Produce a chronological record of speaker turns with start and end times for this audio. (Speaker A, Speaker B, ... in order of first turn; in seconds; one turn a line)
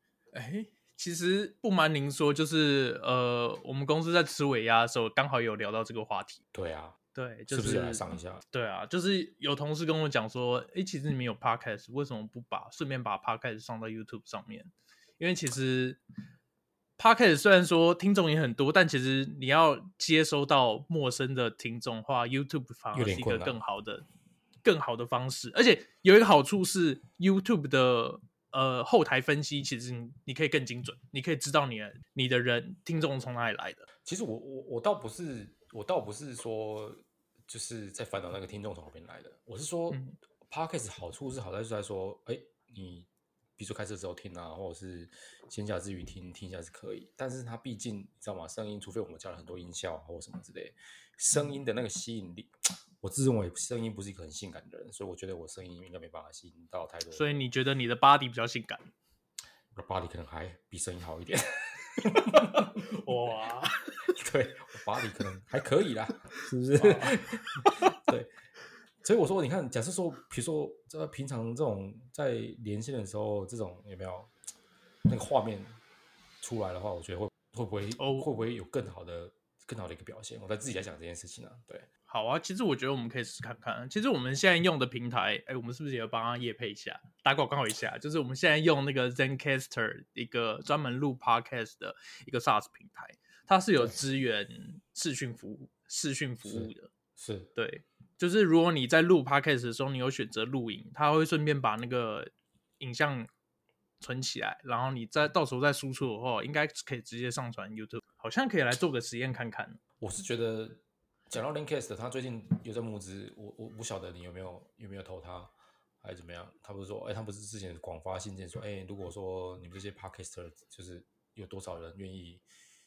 Speaker A: 0.3-6.4
Speaker B: 6.5-7.0
Speaker A: 7.1-16.0
Speaker B: 7.5-8.4
Speaker A: 17.0-24.1
Speaker B: 22.9-23.6
Speaker A: 24.6-33.9
Speaker B: 34.0-57.4
Speaker A: 39.9-40.2
Speaker A: 57.1-58.9
Speaker B: 59.7-62.9
Speaker A: 62.8-63.9
Speaker B: 64.0-68.3
Speaker A: 66.8-67.9
Speaker B: 69.0-74.3
Speaker B: 75.1-75.8
Speaker B: 76.4-81.9
Speaker A: 78.0-78.3
Speaker A: 82.1-96.9
Speaker B: 96.5-97.5
Speaker A: 97.5-103.3
Speaker A: 104.0-109.8
Speaker B: 110.0-122.4